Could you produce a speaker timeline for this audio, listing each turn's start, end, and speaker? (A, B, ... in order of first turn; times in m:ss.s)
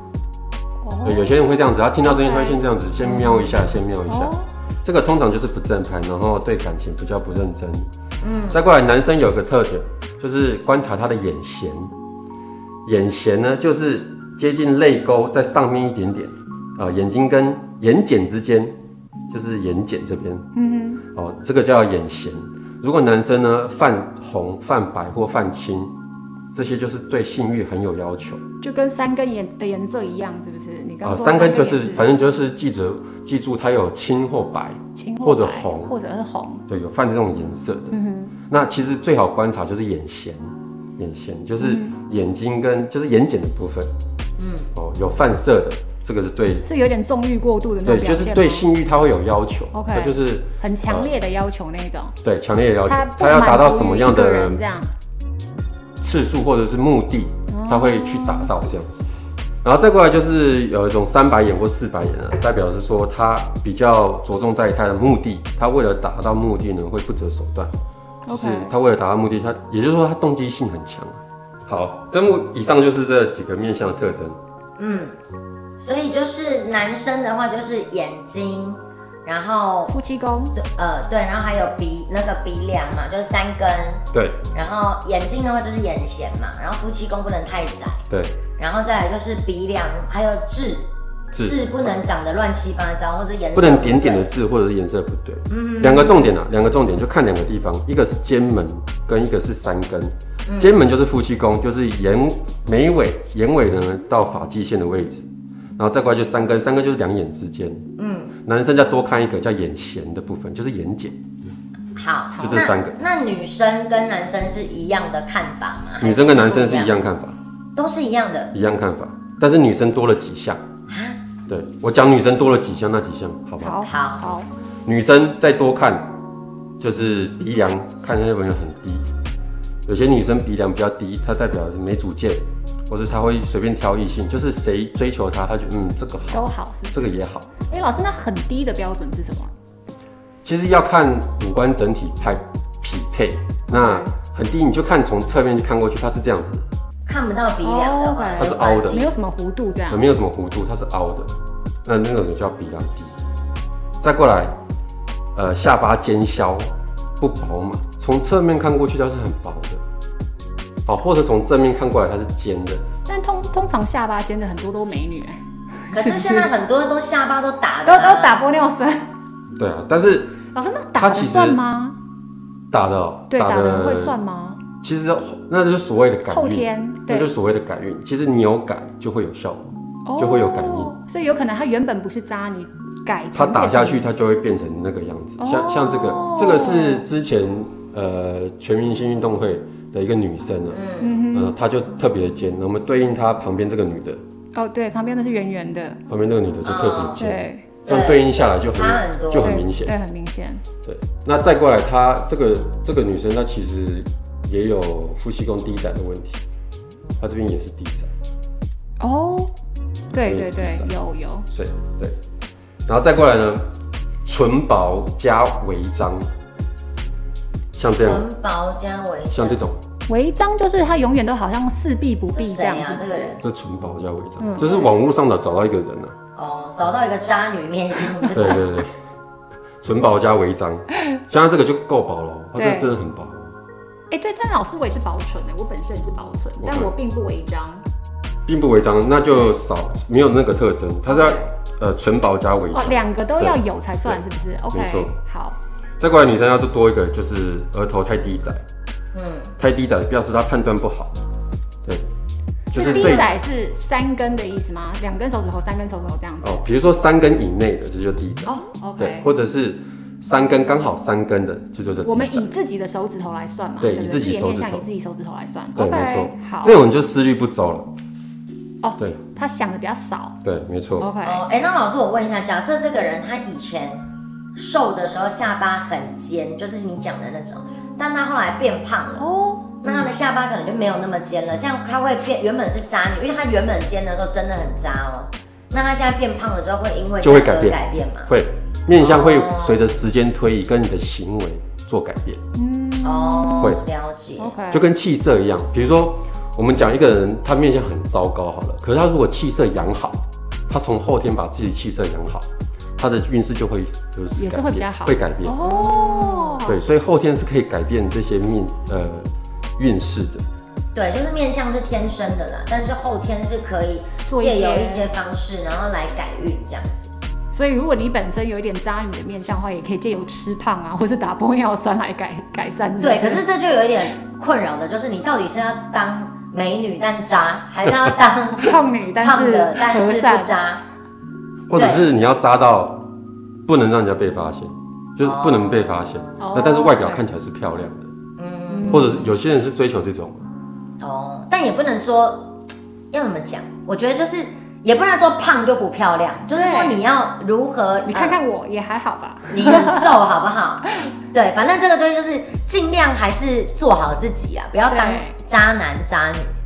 0:00.8-0:01.3 A
0:01.0-0:07.9 B
0:02.0-0:04.5 A
0:08.2-0:08.6 C
0:08.5-0:11.9 B
0:12.8-0:18.8 B
0:19.3-0:20.5 B
0:20.6-0:21.0 A
0:21.1-0:25.9 B
0:26.5-0:28.4 B
0:28.6-0:32.1 A
0:31.0-0:35.9 B
0:35.0-0:36.6 A
0:36.7-0:38.0 B
0:37.9-0:38.4 A
0:38.5-0:43.9 B
0:41.6-0:42.0 A
0:44.4-0:44.7 C
0:44.8-0:46.7 B
0:46.6-0:48.7 A
0:47.8-0:51.2 B
0:49.7-0:52.2 A
0:52.2-0:54.6 B
0:52.9-0:54.9 A
0:56.0-0:59.0 B
0:57.5-0:58.5 A
0:59.6-1:07.7 B
1:08.3-1:08.7 A
1:08.3-1:14.4 B
1:14.8-1:15.2 C
1:15.8-1:19.9 C
1:19.9-1:20.6 A
1:20.6-1:28.0 C
1:24.1-1:24.4 B
1:28.1-1:28.4 B
1:28.6-1:34.3 C
1:31.3-1:31.6 B
1:33.6-1:47.9 B
1:35.5-1:36.3 C
1:40.5-1:40.8 C
1:48.0-1:48.4 C
1:48.4-1:51.2 B
1:52.0-1:56.9 C
1:52.4-1:52.7 A
1:52.4-1:53.0 B
1:56.0-1:57.4 B
1:57.8-1:58.5 C
1:58.5-2:00.6 B
2:00.9-2:01.2 C
2:01.5-2:03.8 B
2:03.6-2:04.5 A
2:03.8-2:04.3 C
2:04.9-2:06.1 B
2:06.8-2:09.1 B
2:09.9-2:17.7 B
2:16.3-2:17.1 A
2:17.7-2:19.5 A
2:20.4-2:26.6 B
2:23.7-2:24.1 A
2:27.1-2:29.1 C
2:27.6-2:30.1 A
2:28.4-2:29.0 B
2:29.9-2:31.3 B
2:31.8-2:33.1 B
2:34.0-2:34.6 B
2:35.4-2:39.8 B
2:40.9-2:42.9 B
2:43.1-2:46.5 A
2:45.9-2:48.4 C
2:47.9-2:49.0 A
2:49.6-2:50.4 B
2:50.5-2:52.0 A
2:51.0-2:51.6 B
2:52.7-2:54.2 B
2:53.3-2:54.6 A
2:54.8-3:01.0 B
2:56.3-2:57.3 A
3:00.0-3:04.1 A
3:03.3-3:14.2 B
3:05.4-3:07.0 A
3:10.7-3:11.2 C
3:11.0-3:11.5 A
3:14.6-3:16.0 A
3:16.1-3:19.9 B
3:16.6-3:17.2 C
3:17.2-3:17.7 A
3:17.9-3:19.6 C
3:19.4-3:20.6 A
3:20.8-3:26.4 B
3:27.2-3:28.1 B
3:29.0-3:29.5 A
3:30.1-3:31.5 A
3:30.1-3:30.9 B
3:31.5-3:32.2 B
3:32.9-3:33.7 B
3:34.2-3:36.3 B
3:37.8-3:38.3 B
3:37.8-3:39.6 C
3:39.3-3:39.8 B
3:40.1-3:43.4 A
3:42.3-3:43.4 C
3:43.4-3:46.2 B
3:44.4-3:44.9 A
3:44.6-3:44.9 C
3:46.4-3:48.7 C
3:48.3-3:48.9 B
3:49.8-3:53.5 B
3:52.6-3:52.9 A
3:54.1-3:57.8 A
3:56.6-3:56.9 B
3:58.5-4:04.2 B
4:01.1-4:01.5 A
4:02.7-4:05.6 A
4:04.7-4:05.1 B
4:06.0-4:08.6 B
4:09.1-4:09.5 C
4:09.6-4:11.2 B
4:12.7-4:13.3 B
4:12.7-4:16.6 A
4:12.8-4:13.3 C
4:16.4-4:22.5 B
4:18.5-4:19.3 A
4:22.0-4:26.8 A
4:23.8-4:24.9 B
4:25.8-4:27.9 B
4:28.8-4:30.4 A
4:30.4-4:31.1 B
4:31.0-4:31.4 A
4:31.2-4:34.0 C
4:34.6-4:39.3 C
4:39.2-4:40.1 A
4:39.8-4:48.3 C
4:47.2-4:52.4 B
4:49.0-4:49.9 C
4:52.6-4:53.8 A
4:53.0-4:54.6 C
4:54.4-4:54.9 A
4:54.7-5:02.5 B
5:03.0-5:05.6 B
5:04.4-5:06.8 A
5:05.6-5:06.6 C
5:06.6-5:10.4 B
5:11.0-5:17.1 C
5:14.3-5:15.1 A
5:17.5-5:23.4 A
5:23.0-5:30.8 C
5:28.6-5:30.6 A
5:31.7-5:33.0 B
5:31.7-5:32.0 C
5:33.7-5:38.1 B
5:35.2-5:36.4 C
5:36.4-5:37.2 A
5:38.4-5:39.3 C
5:38.7-5:39.2 A
5:38.9-5:40.5 B
5:41.0-5:42.5 C
5:43.1-5:48.4 C
5:46.5-5:47.0 A
5:48.1-5:50.1 A
5:49.5-5:56.5 C
5:54.9-5:55.4 A